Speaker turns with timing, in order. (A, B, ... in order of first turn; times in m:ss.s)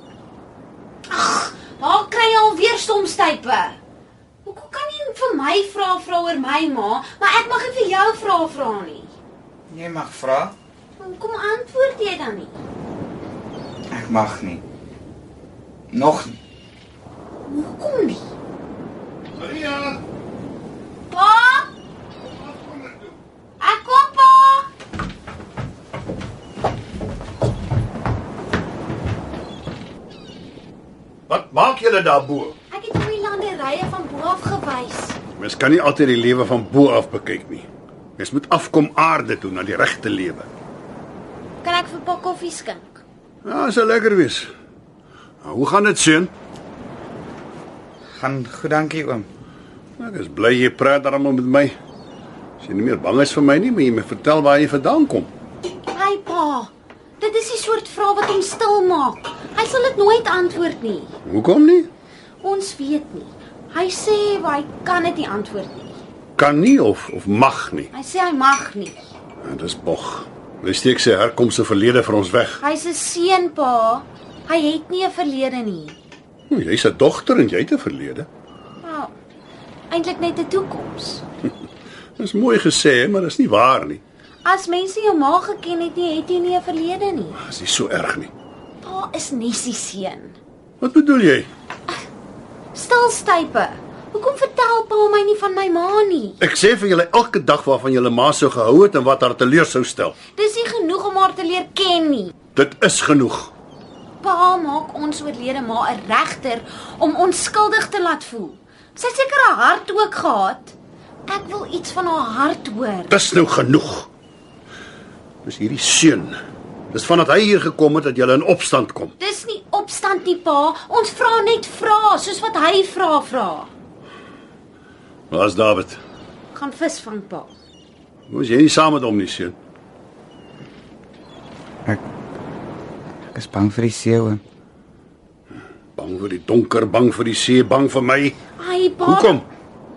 0:01.1-0:03.8 A
0:04.4-0:09.1 A
0:09.7-0:10.6 B
0:11.0-0:12.5 A
0:13.9-0:14.6 B
0:15.9-0:16.4 B
0:17.5-0:18.3 A
0:19.3-0:20.0 C
0:21.1-0:21.7 A
0:22.2-0:23.2 C
0:23.6-0:24.7 A
0:31.3-0:32.6 C
0:32.7-0:35.2 A
0:35.4-0:40.5 C
0:41.6-0:43.0 A
0:43.4-0:44.5 C
0:45.4-0:46.3 C
0:48.1-0:49.3 B
0:50.0-0:51.8 C
0:52.6-0:55.3 C
0:55.9-1:01.2 A
1:01.2-1:01.9 C
1:02.4-1:06.0 A
1:06.4-1:07.9 C
1:07.9-1:09.1 A
1:09.4-1:12.6 C
1:12.6-1:16.0 A
1:16.5-1:18.3 C
1:18.8-1:19.2 A
1:19.9-1:21.2 A
1:22.2-1:24.0 C
1:24.4-1:27.4 A
1:27.4-1:28.3 C
1:28.8-1:30.4 A
1:30.8-1:31.5 C
1:32.7-1:36.4 A
1:36.4-1:40.2 C
1:40.4-1:42.3 A
1:42.6-1:43.5 C
1:44.2-1:50.7 A
1:51.3-1:53.1 A
1:53.1-1:54.1 C
1:55.4-1:56.4 C
1:56.9-1:59.1 C
1:59.2-2:03.7 A
2:05.3-2:06.0 C
2:06.5-2:07.5 A
2:08.3-2:09.6 C
2:13.3-2:14.4 B
2:16.0-2:18.4 C
2:18.6-2:19.4 A
2:19.0-2:19.5 C